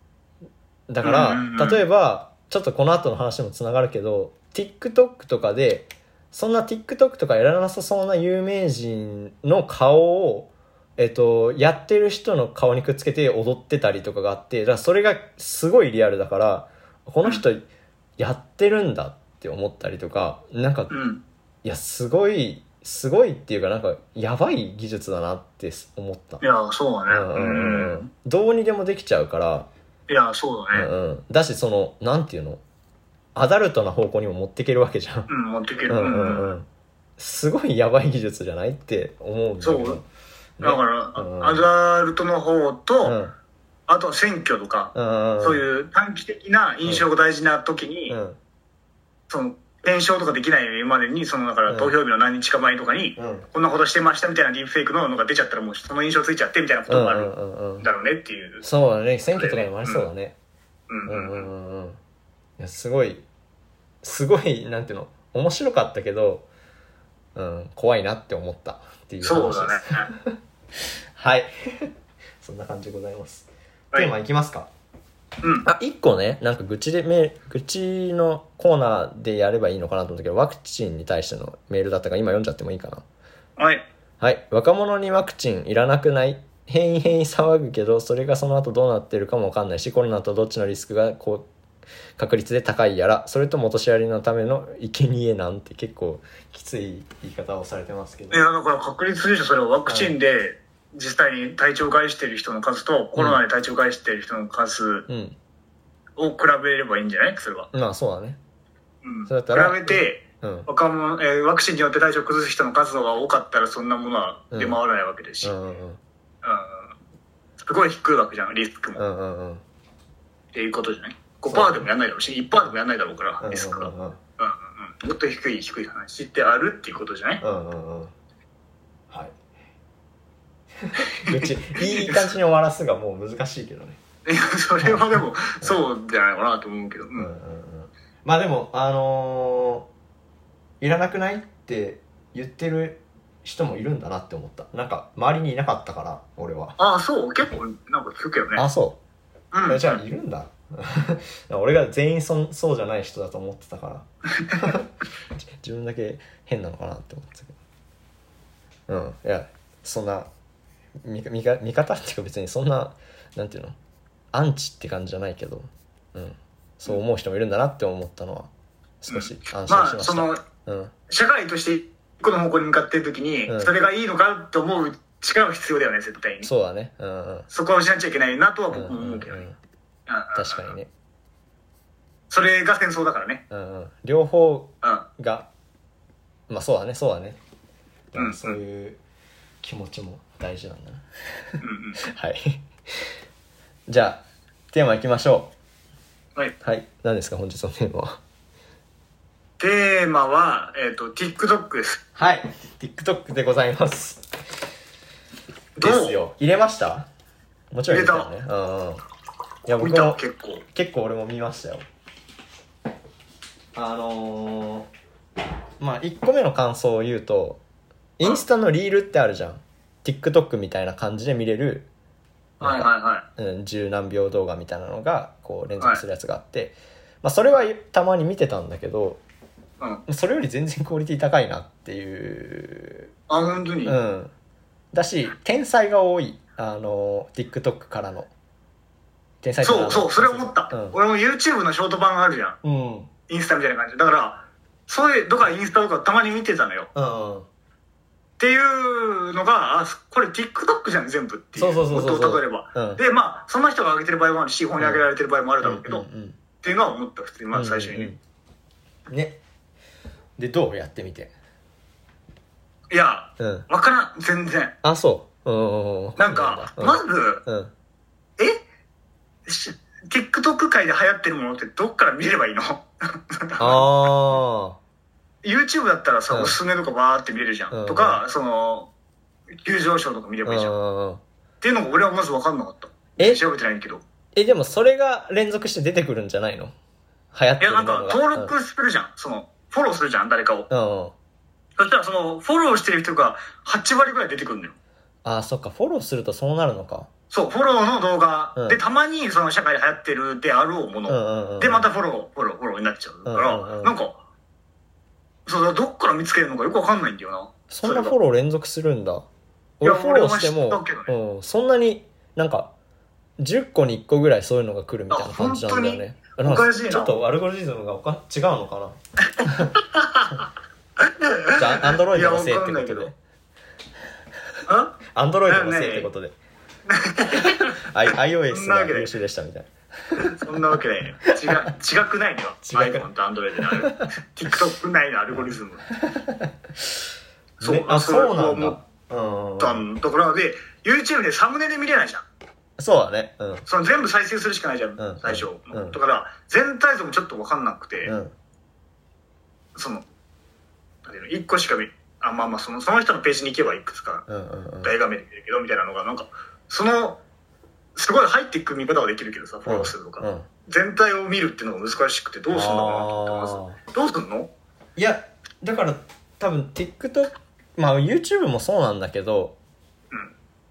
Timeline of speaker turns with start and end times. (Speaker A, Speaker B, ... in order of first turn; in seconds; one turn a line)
Speaker A: 0.9-17.6
Speaker B: 1.0-1.8
Speaker A: 18.2-20.9
Speaker B: 20.9-21.2
Speaker A: 21.6-26.4
Speaker B: 26.4-28.1
Speaker A: 27.1-29.7
Speaker B: 30.1-30.9
Speaker A: 30.7-32.6
Speaker A: 33.3-35.3
Speaker B: 35.3-36.5
Speaker A: 35.9-36.7
Speaker A: 37.2-40.0
Speaker B: 39.6-40.0
Speaker A: 40.6-41.6
Speaker B: 40.6-43.1
Speaker A: 43.0-43.3
Speaker B: 43.9-48.1
Speaker A: 44.9-45.6
Speaker A: 48.1-48.4
Speaker B: 49.3-58.6
Speaker A: 51.7-51.9
Speaker A: 53.2-53.5
Speaker A: 56.9-57.9
Speaker A: 58.6-60.4
Speaker B: 59.3-60.0
Speaker B: 60.9-61.5
Speaker A: 61.1-62.0
Speaker A: 62.6-63.2
Speaker A: 64.0-66.5
Speaker A: 67.3-70.4
Speaker B: 69.2-70.1
Speaker A: 71.2-71.9
Speaker A: 72.4-74.7
Speaker A: 75.6-83.0
Speaker B: 83.6-83.8
Speaker A: 84.2-91.5
Speaker A: 92.2-98.4
Speaker B: 98.3-105.1
Speaker A: 99.9-100.2
Speaker A: 105.1-105.3
Speaker B: 106.2-107.7
Speaker A: 107.7-108.4
Speaker B: 109.0-115.5
Speaker A: 109.3-110.7
Speaker A: 114.5-114.8
Speaker A: 115.4-116.0
Speaker B: 116.4-116.9
Speaker B: 117.6-119.0
Speaker A: 119.0-119.6
Speaker B: 120.5-127.4
Speaker A: 121.5-121.8
Speaker A: 123.4-124.2
Speaker A: 127.4-128.1
Speaker A: 129.1-129.3
Speaker A: 130.8-134.0
Speaker B: 131.1-132.3
Speaker B: 134.2-137.3
Speaker A: 137.2-139.9
Speaker A: 140.8-146.8
Speaker B: 146.8-148.6
Speaker A: 148.6-149.0
Speaker B: 149.5-150.0
Speaker A: 149.7-154.9
Speaker A: 155.6-157.6
Speaker A: 158.9-160.3
Speaker A: 161.0-163.8
Speaker A: 164.3-168.5
Speaker A: 169.0-170.9
Speaker B: 169.1-170.4
Speaker B: 171.1-176.5
Speaker A: 176.4-177.5
Speaker B: 177.5-179.4
Speaker A: 178.7-179.6
Speaker B: 180.1-180.7
Speaker A: 180.3-180.9
Speaker B: 182.3-183.4
Speaker A: 183.5-185.5
Speaker B: 184.8-185.1
Speaker A: 186.5-187.4
Speaker A: 188.1-189.0
Speaker B: 188.2-188.6
Speaker A: 189.6-191.0
Speaker A: 191.6-193.1
Speaker B: 191.6-192.0
Speaker A: 193.9-195.5
Speaker A: 196.6-198.2
Speaker B: 199.6-202.0
Speaker A: 202.2-204.2
Speaker B: 205.8-206.2
Speaker A: 205.8-207.1
Speaker A: 207.7-209.0
Speaker B: 207.9-208.3
Speaker A: 209.7-210.2
Speaker B: 209.7-210.6
Speaker A: 210.7-211.8
Speaker A: 213.7-214.9
Speaker A: 215.8-217.6
Speaker A: 218.2-221.9
Speaker B: 222.6-223.3
Speaker A: 222.6-229.2
Speaker A: 230.1-233.1
Speaker B: 233.3-233.9
Speaker A: 233.8-234.3
Speaker A: 234.9-238.3
Speaker A: 239.4-241.0
Speaker B: 239.6-242.6
Speaker A: 242.6-243.1
Speaker B: 243.3-246.9
Speaker A: 246.9-247.5
Speaker B: 248.4-256.1
Speaker A: 251.6-253.0
Speaker A: 254.8-255.0
Speaker A: 255.6-256.4
Speaker B: 256.6-258.1
Speaker A: 257.5-258.2
Speaker A: 259.1-259.4
Speaker A: 260.4-261.3
Speaker B: 262.9-264.8
Speaker A: 263.4-263.6
Speaker A: 264.8-267.7
Speaker B: 266.2-267.4
Speaker B: 269.4-273.9
Speaker A: 273.6-274.8
Speaker B: 275.4-278.9
Speaker A: 276.3-276.6
Speaker A: 277.7-278.2
Speaker B: 279.5-280.7
Speaker A: 280.4-281.2
Speaker B: 281.6-284.0
Speaker A: 284.3-286.7
Speaker A: 287.3-288.5
Speaker B: 287.6-290.7
Speaker A: 290.7-291.1
Speaker B: 291.8-294.8
Speaker A: 295.2-297.1
Speaker B: 297.3-304.2
Speaker A: 301.1-301.9
Speaker A: 303.2-303.9
Speaker B: 305.4-308.1
Speaker A: 307.7-309.2
Speaker A: 309.8-312.7
Speaker B: 309.8-311.1
Speaker A: 313.4-319.8
Speaker B: 315.1-317.1
Speaker B: 319.7-320.4
Speaker B: 321.0-323.1
Speaker A: 321.6-323.1
Speaker B: 324.6-326.1
Speaker A: 325.1-326.3
Speaker B: 326.9-327.8
Speaker A: 327.4-330.3
Speaker B: 328.5-329.1
Speaker B: 330.2-335.8
Speaker A: 331.2-331.7
Speaker A: 332.6-333.1
Speaker A: 333.7-334.1
Speaker A: 335.3-336.5
Speaker B: 337.6-338.8
Speaker A: 337.6-339.9
Speaker B: 339.6-342.2
Speaker A: 342.8-343.6
Speaker B: 343.7-348.1
Speaker A: 345.0-346.0
Speaker A: 348.0-348.3
Speaker B: 349.8-350.0
Speaker B: 351.0-354.2
Speaker A: 354.3-354.9
Speaker B: 354.8-357.2
Speaker B: 357.9-364.5
Speaker A: 359.6-360.5
Speaker A: 362.5-363.8
Speaker A: 364.9-369.6